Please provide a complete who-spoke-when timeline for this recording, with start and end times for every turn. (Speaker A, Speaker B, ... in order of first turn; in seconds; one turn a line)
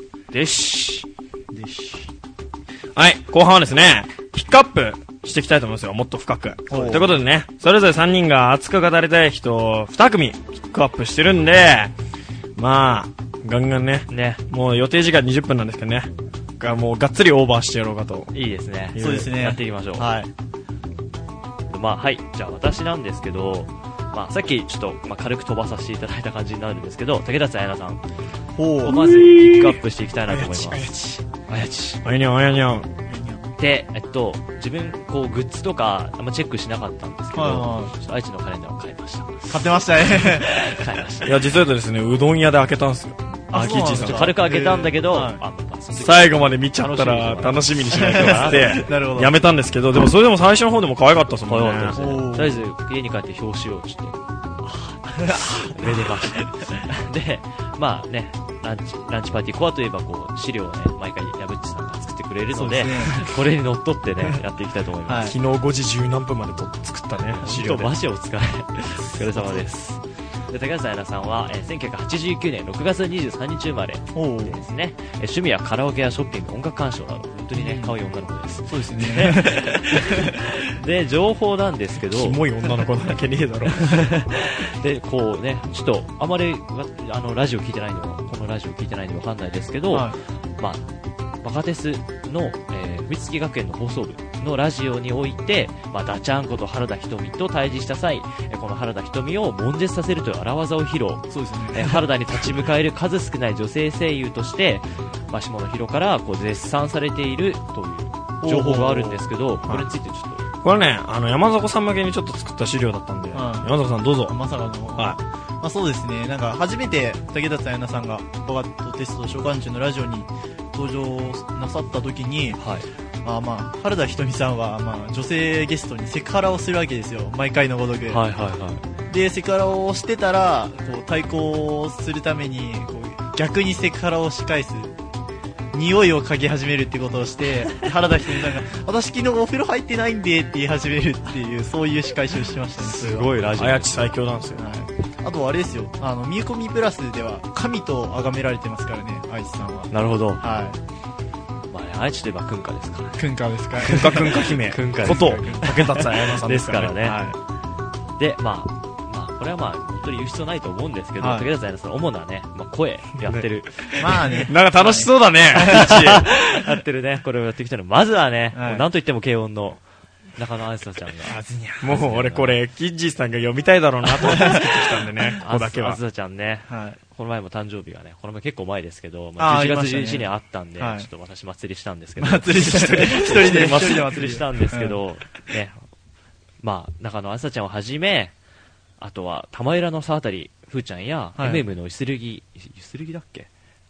Speaker A: 0.3-1.1
Speaker B: 1.5-2.1
Speaker C: 2.9-11.9
Speaker B: 6.7-7.2
Speaker C: 12.6-18.3
Speaker A: 14.1-14.4
Speaker A: 18.3-20.1
Speaker C: 18.9-19.3
Speaker B: 19.0-20.3
Speaker A: 21.7-28.0
Speaker B: 28.5-29.0
Speaker A: 28.8-30.9
Speaker C: 28.9-29.8
Speaker B: 30.3-31.3
Speaker A: 31.5-32.0
Speaker C: 32.0-32.9
Speaker B: 33.1-33.5
Speaker A: 33.6-41.4
Speaker B: 37.3-37.9
Speaker B: 39.5-40.7
Speaker C: 41.2-43.2
Speaker A: 43.5-48.8
Speaker B: 43.5-45.4
Speaker C: 43.8-44.3
Speaker C: 45.9-52.0
Speaker B: 47.9-49.4
Speaker A: 51.5-65.3
Speaker B: 52.0-52.7
Speaker B: 55.2-56.5
Speaker B: 62.5-63.3
Speaker B: 65.0-65.4
Speaker C: 65.2-67.9
Speaker A: 67.2-82.4
Speaker B: 69.2-69.6
Speaker B: 74.1-74.6
Speaker B: 77.5-78.0
Speaker B: 78.7-80.5
Speaker C: 82.1-84.0
Speaker A: 83.7-90.8
Speaker B: 89.9-90.2
Speaker A: 91.4-110.5
Speaker B: 101.3-102.0
Speaker B: 108.4-109.3
Speaker C: 110.6-114.4
Speaker B: 113.3-113.7
Speaker B: 114.3-122.6
Speaker C: 115.0-115.2
Speaker A: 122.6-122.9
Speaker B: 123.2-128.2
Speaker A: 128.1-128.8
Speaker B: 129.1-134.9
Speaker B: 135.7-143.3
Speaker C: 142.9-144.6
Speaker A: 142.9-144.1
Speaker B: 144.6-150.8
Speaker A: 149.9-150.4
Speaker A: 151.7-157.2
Speaker B: 153.2-155.8
Speaker C: 153.9-157.0
Speaker B: 157.0-157.4
Speaker A: 158.1-164.4
Speaker B: 161.2-161.5
Speaker B: 164.0-166.0
Speaker C: 164.0-166.3
Speaker A: 165.5-169.8
Speaker B: 168.5-168.8
Speaker A: 170.3-172.6
Speaker B: 171.2-172.0
Speaker C: 171.8-176.0
Speaker B: 174.2-175.0
Speaker A: 175.4-185.8
Speaker B: 176.7-177.0
Speaker B: 179.4-181.1
Speaker B: 182.2-185.0
Speaker C: 183.0-184.0
Speaker A: 186.6-188.3
Speaker A: 189.0-193.5
Speaker B: 191.4-191.6